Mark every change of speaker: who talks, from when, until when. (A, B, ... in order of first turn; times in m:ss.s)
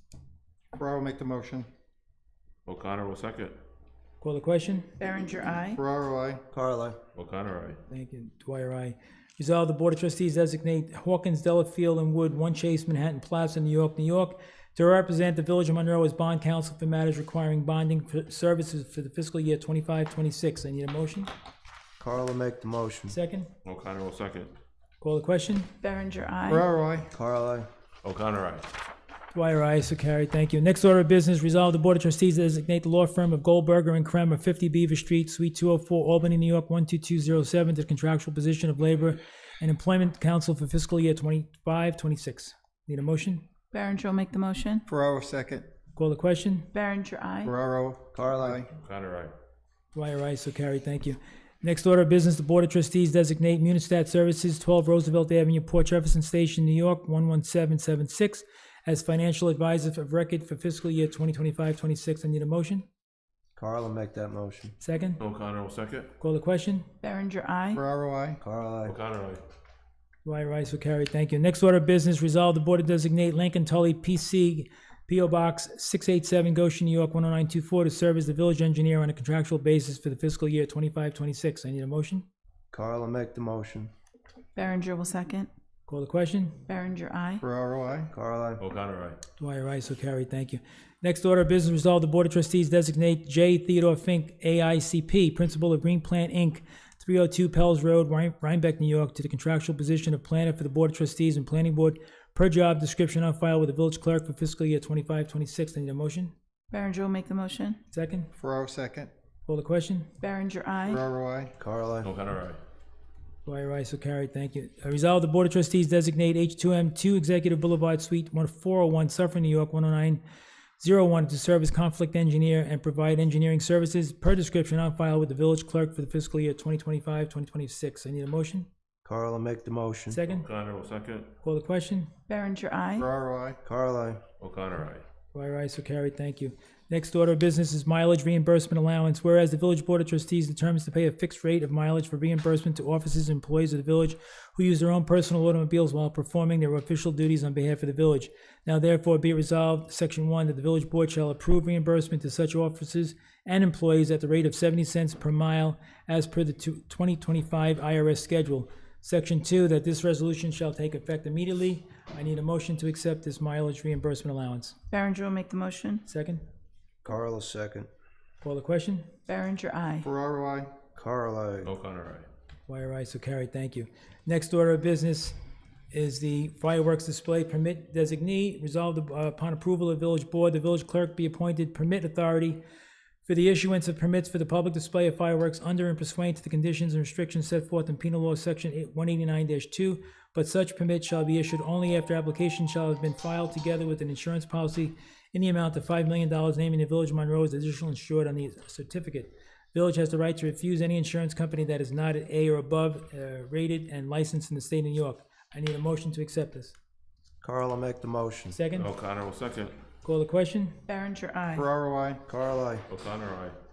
0:00.7-0:01.7 A
0:02.7-0:03.6 B
0:04.2-0:05.0 C
0:05.0-0:05.8 D
0:05.8-0:06.4 A
0:06.5-0:07.0 E
0:07.1-0:07.8 B
0:07.9-0:21.3 C
0:22.0-0:23.2 E
0:23.1-0:23.5 C
0:23.6-0:24.5 B
0:25.0-0:25.8 C
0:25.8-0:26.6 D
0:26.5-0:27.1 A
0:27.1-0:27.7 E
0:28.0-0:28.7 B
0:29.3-0:43.4 C
0:43.7-0:44.8 D
0:44.9-0:45.7 A
0:45.9-0:46.7 C
0:46.7-0:47.5 D
0:47.4-0:48.7 A
0:48.1-0:48.6 E
0:48.8-0:49.3 B
0:49.9-1:02.8 C
1:03.6-1:04.8 E
1:04.8-1:05.2 C
1:05.2-1:06.2 B
1:06.2-1:06.9 C
1:07.0-1:07.8 D
1:07.7-1:08.4 A
1:08.4-1:09.0 E
1:08.8-1:09.4 B
1:10.2-1:22.2 C
1:22.7-1:23.9 E
1:24.6-1:25.5 D
1:25.9-1:26.6 C
1:26.6-1:27.4 D
1:27.4-1:28.1 A
1:28.1-1:28.6 E
1:28.6-1:29.2 B
1:29.4-1:46.3 C
1:46.7-1:47.8 D
1:47.9-1:48.3 C
1:48.4-1:49.1 A
1:49.5-1:50.1 C
1:50.2-1:51.0 D
1:50.9-1:51.5 A
1:51.6-1:52.1 E
1:52.0-1:52.6 B
1:53.4-2:00.2 C
2:00.8-2:08.7 C
2:09.0-2:10.2 E
2:10.1-2:10.4 C
2:10.2-2:11.4 B
2:11.4-2:12.1 C
2:12.3-2:13.1 D
2:13.0-2:13.6 A
2:13.6-2:14.2 E
2:14.4-2:15.0 B
2:15.3-2:44.8 C
2:44.9-2:46.1 D
2:46.1-2:46.4 C
2:47.0-2:47.9 E
2:48.4-2:49.1 C
2:49.2-2:50.1 D
2:50.0-2:50.7 A
2:51.0-2:51.7 E
2:51.6-2:52.3 B
2:52.7-2:55.4 C
2:55.9-3:02.6 C
3:03.3-3:26.7 C
3:27.4-3:28.6 E
3:28.5-3:28.9 C
3:28.7-3:29.8 B
3:30.0-3:30.8 C
3:30.8-3:31.6 D
3:31.5-3:32.2 A
3:32.3-3:32.8 E
3:32.9-3:33.6 B